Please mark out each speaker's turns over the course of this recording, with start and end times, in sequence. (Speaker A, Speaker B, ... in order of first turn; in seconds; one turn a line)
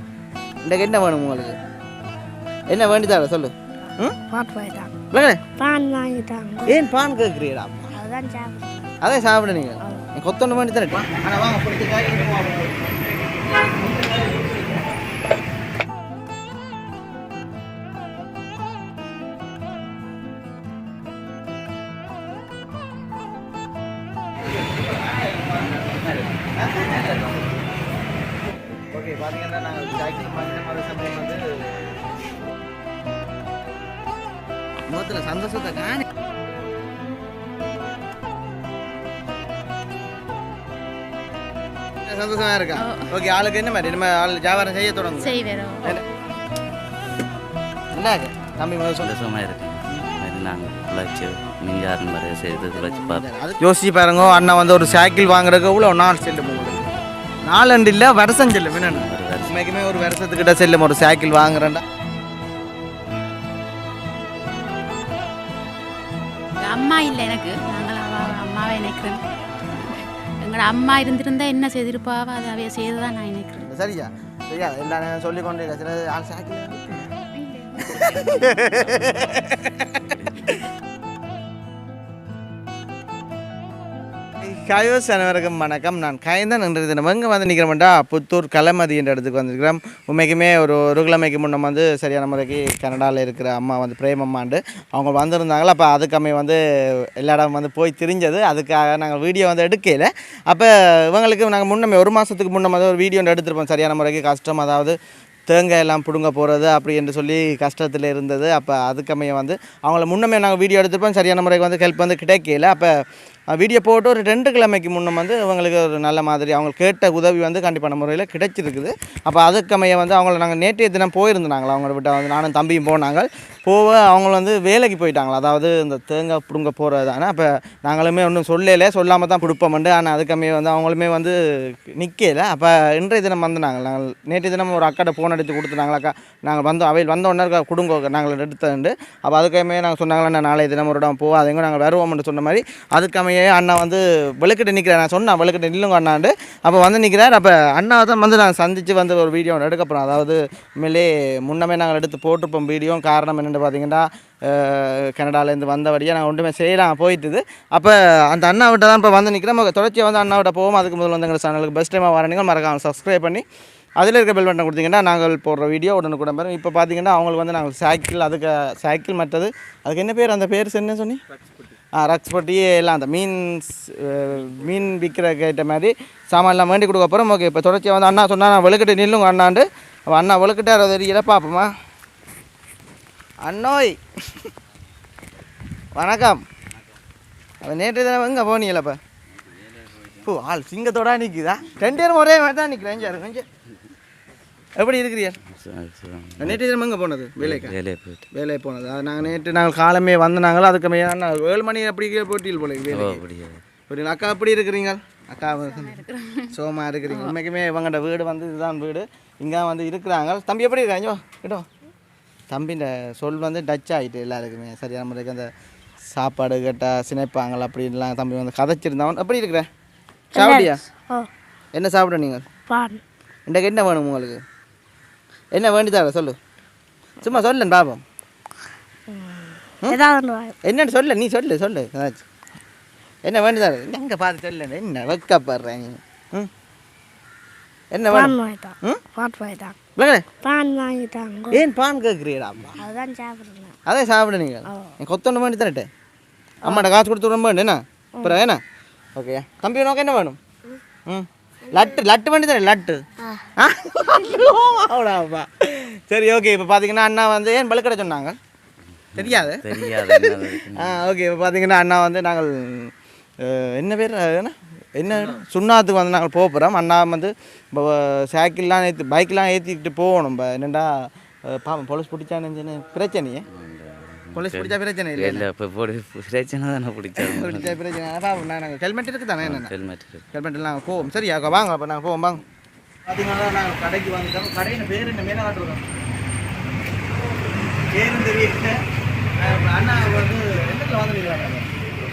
Speaker A: 0.6-1.6
Speaker A: 2.7-4.2
Speaker B: 4.3-4.9
Speaker A: 5.1-5.4
Speaker B: 5.6-6.8
Speaker A: 6.7-7.9
Speaker B: 7.9-8.9
Speaker A: 9.0-12.9
Speaker A: 26.6-26.9
Speaker A: 28.9-31.9
Speaker A: 34.9-36.0
Speaker A: 42.0-46.0
Speaker C: 42.8-43.1
Speaker C: 45.2-46.0
Speaker A: 47.9-49.1
Speaker D: 49.0-53.3
Speaker A: 52.7-56.9
Speaker A: 57.5-61.8
Speaker D: 58.5-59.6
Speaker C: 66.6-73.7
Speaker A: 73.7-77.1
Speaker C: 77.3-78.2
Speaker A: 77.8-80.6
Speaker D: 78.7-79.1
Speaker D: 80.1-80.5
Speaker A: 84.4-96.6
Speaker A: 97.2-104.9
Speaker A: 105.5-112.9
Speaker A: 113.5-163.4
Speaker A: 164.0-171.2
Speaker A: 171.9-181.7
Speaker A: 183.4-184.4
Speaker A: 185.9-186.4
Speaker A: 187.6-189.0
Speaker A: 190.2-193.4
Speaker A: 194.8-195.4
Speaker D: 195.5-196.6
Speaker A: 196.4-197.8
Speaker D: 197.4-198.3
Speaker A: 198.3-203.2
Speaker D: 202.9-203.6
Speaker A: 203.9-206.0
Speaker C: 205.4-206.5
Speaker A: 206.5-211.6
Speaker C: 207.1-207.3
Speaker A: 212.5-215.5
Speaker A: 216.1-219.7
Speaker B: 220.3-221.3
Speaker A: 220.3-220.8
Speaker A: 221.7-222.4
Speaker B: 222.7-223.0
Speaker A: 223.5-224.4
Speaker A: 225.5-226.3
Speaker A: 227.2-228.0
Speaker B: 229.1-230.6
Speaker A: 230.6-232.2
Speaker A: 233.2-236.5
Speaker A: 237.9-239.0
Speaker B: 238.1-239.8
Speaker A: 240.0-240.2
Speaker B: 240.4-241.6
Speaker A: 241.5-242.8
Speaker B: 242.8-243.8
Speaker A: 243.8-245.9
Speaker B: 244.7-244.9
Speaker A: 246.6-248.6
Speaker A: 249.2-250.4
Speaker A: 251.1-253.0
Speaker B: 253.2-253.5
Speaker A: 253.6-258.4
Speaker D: 259.1-261.0
Speaker A: 259.1-273.4
Speaker D: 273.5-277.8
Speaker A: 274.3-275.4
Speaker A: 277.2-279.7
Speaker D: 279.4-280.3
Speaker A: 280.3-282.4
Speaker A: 283.1-285.8
Speaker A: 287.8-288.8
Speaker A: 289.4-291.7